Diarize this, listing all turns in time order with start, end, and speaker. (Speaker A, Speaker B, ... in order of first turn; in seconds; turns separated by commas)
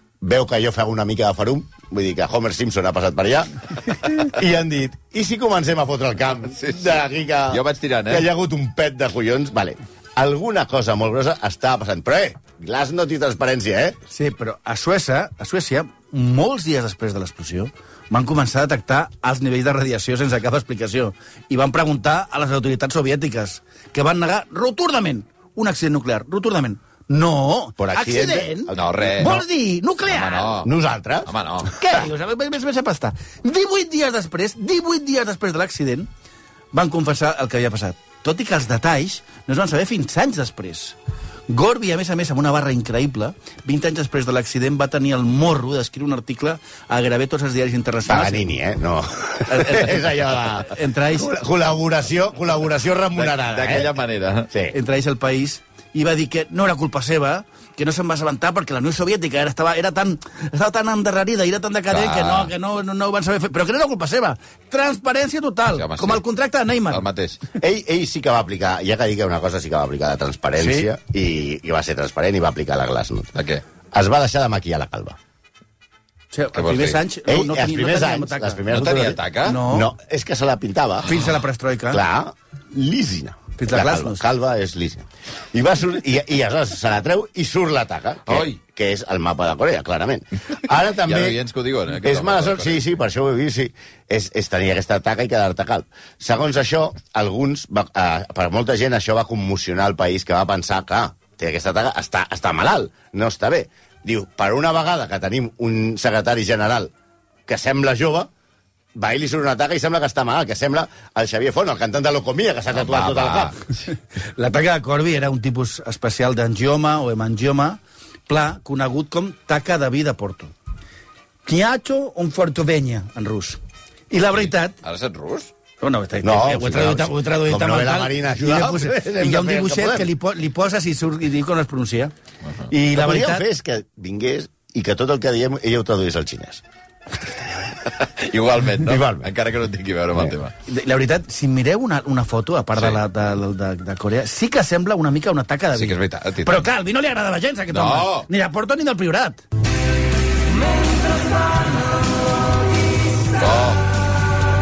Speaker A: 0.2-3.5, Speaker A: 4.1-14.0, Speaker B: 6.6-8.3, Speaker C: 14.1-30.5, Speaker A: 27.8-29.3, Speaker B: 28.7-29.4, Speaker B: 30.1-30.7, Speaker A: 30.6-31.3, Speaker B: 31.3-31.7, Speaker C: 31.7-36.1, Speaker C: 36.7-41.0, Speaker C: 41.5-48.5, Speaker A: 48.1-54.0, Speaker C: 49.5-50.0, Speaker C: 50.6-51.3, Speaker B: 53.2-54.5, Speaker A: 54.5-54.8, Speaker C: 54.7-67.0, Speaker B: 61.9-62.5, Speaker B: 65.7-66.2, Speaker B: 66.9-67.4, Speaker A: 67.6-73.4, Speaker C: 70.6-70.9, Speaker B: 73.4-73.6, Speaker A: 73.9-75.2, Speaker C: 76.3-78.6, Speaker B: 76.5-77.0, Speaker A: 77.3-81.1, Speaker B: 78.7-79.6, Speaker C: 79.4-79.9, Speaker C: 81.1-82.0, Speaker A: 81.9-91.4, Speaker C: 83.6-84.3, Speaker B: 88.3-88.6, Speaker B: 91.0-92.8, Speaker A: 92.0-106.9, Speaker A: 107.5-108.3, Speaker A: 109.0-113.6, Speaker B: 112.7-113.6, Speaker C: 114.3-120.5, Speaker C: 121.5-123.6, Speaker C: 124.1-124.8, Speaker B: 124.3-125.5, Speaker C: 125.8-132.1, Speaker A: 126.2-130.1, Speaker C: 132.7-133.5, Speaker A: 132.9-136.6, Speaker B: 138.0-140.5, Speaker A: 138.8-139.3, Speaker C: 140.7-149.4, Speaker B: 145.7-146.7, Speaker B: 147.7-148.3, Speaker B: 153.4-153.8